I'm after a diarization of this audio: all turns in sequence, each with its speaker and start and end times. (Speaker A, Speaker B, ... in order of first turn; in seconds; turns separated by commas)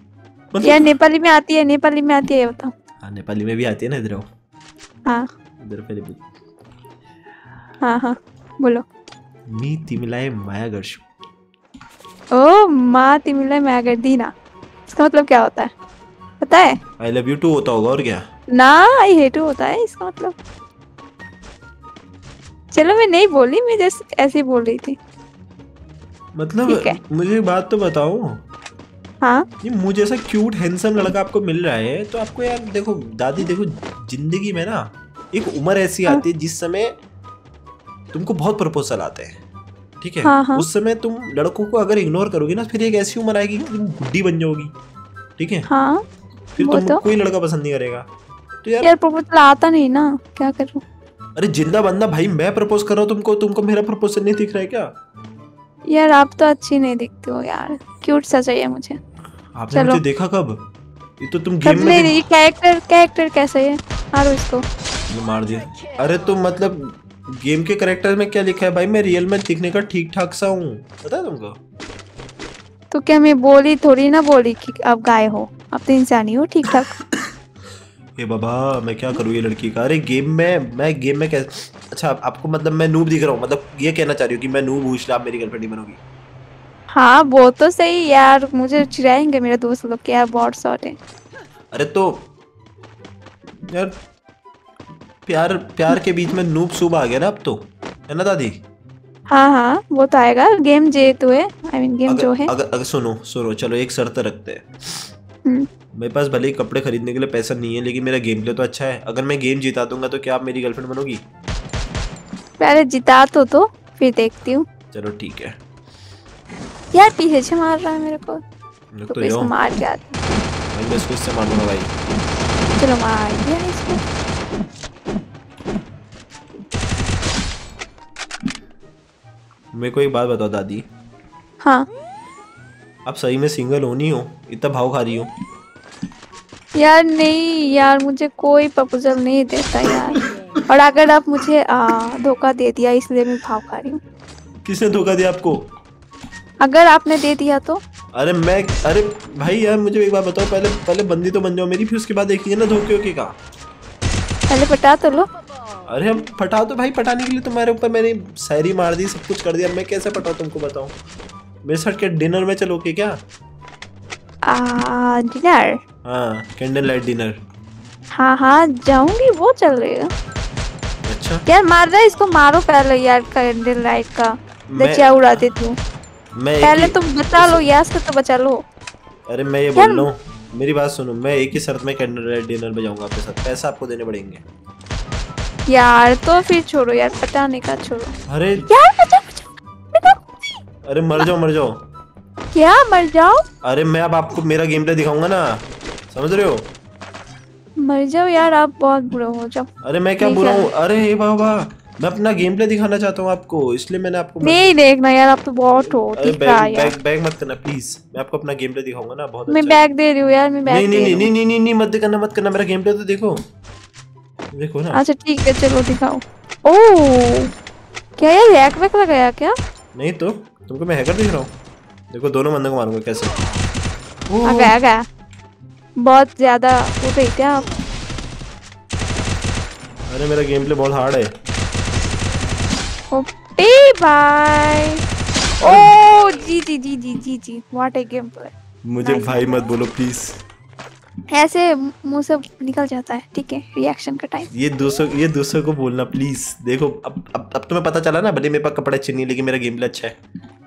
Speaker A: 0.5-0.9, Speaker B: 0.6-2.7, Speaker A: 3.0-4.3, Speaker A: 5.6-6.2, Speaker B: 7.8-8.8, Speaker A: 9.5-11.0, Speaker B: 12.3-14.3, Speaker B: 14.9-15.7, Speaker B: 16.4-16.8, Speaker A: 17.0-18.2, Speaker B: 18.5-20.3, Speaker B: 22.7-25.0, Speaker A: 26.4-28.4, Speaker B: 26.7-26.9, Speaker B: 29.2-29.5, Speaker A: 29.6-36.9, Speaker A: 38.1-39.4, Speaker A: 40.0-44.7, Speaker B: 40.2-40.7, Speaker A: 45.4-45.7, Speaker B: 45.7-46.0, Speaker A: 46.6-48.1, Speaker B: 46.6-47.0, Speaker A: 48.6-48.9, Speaker B: 48.8-50.8, Speaker A: 51.4-54.9, Speaker B: 55.9-59.0, Speaker A: 59.5-60.6, Speaker B: 59.7-60.0, Speaker A: 61.2-62.1, Speaker B: 61.6-64.6, Speaker A: 65.1-71.6, Speaker B: 72.9-77.0, Speaker A: 78.2-86.0, Speaker B: 86.9-91.0, Speaker A: 91.7-92.3, Speaker A: 95.2-98.6, Speaker B: 99.3-102.5, Speaker A: 102.1-105.1, Speaker A: 106.0-111.2, Speaker B: 112.6-114.7, Speaker A: 114.9-115.5, Speaker B: 116.9-118.4, Speaker A: 118.9-119.5, Speaker B: 119.1-120.2, Speaker A: 120.7-121.9, Speaker B: 122.7-124.0, Speaker A: 129.7-130.8, Speaker B: 131.6-131.9, Speaker A: 133.1-135.3, Speaker B: 136.8-144.0, Speaker A: 144.6-145.6, Speaker B: 146.6-147.8, Speaker A: 148.1-153.3, Speaker B: 154.5-155.3, Speaker A: 155.8-161.0, Speaker A: 161.6-163.2, Speaker B: 164.5-165.8, Speaker A: 166.0-167.4, Speaker B: 168.2-170.1, Speaker A: 171.1-171.4, Speaker B: 171.5-175.8, Speaker A: 174.7-175.4, Speaker A: 176.3-177.7, Speaker B: 176.6-178.6, Speaker A: 179.3-184.4, Speaker B: 179.8-180.1, Speaker B: 185.7-188.1, Speaker A: 188.3-188.7, Speaker B: 188.7-190.2, Speaker A: 190.8-191.8, Speaker B: 192.5-193.4, Speaker A: 193.6-196.7, Speaker B: 197.8-199.7, Speaker A: 199.8-204.6, Speaker B: 200.2-200.7, Speaker B: 204.4-206.9, Speaker A: 205.8-209.8, Speaker B: 209.5-211.3, Speaker A: 210.7-213.4, Speaker A: 214.5-215.0, Speaker B: 214.9-217.5, Speaker B: 218.2-219.5, Speaker A: 219.9-221.5, Speaker A: 222.1-223.5, Speaker A: 224.3-224.8, Speaker B: 224.4-225.0, Speaker B: 226.0-227.7, Speaker A: 230.1-231.3, Speaker B: 233.1-235.0, Speaker A: 235.6-235.9, Speaker B: 235.6-239.6, Speaker A: 238.8-240.3, Speaker B: 241.3-244.5, Speaker A: 244.5-250.1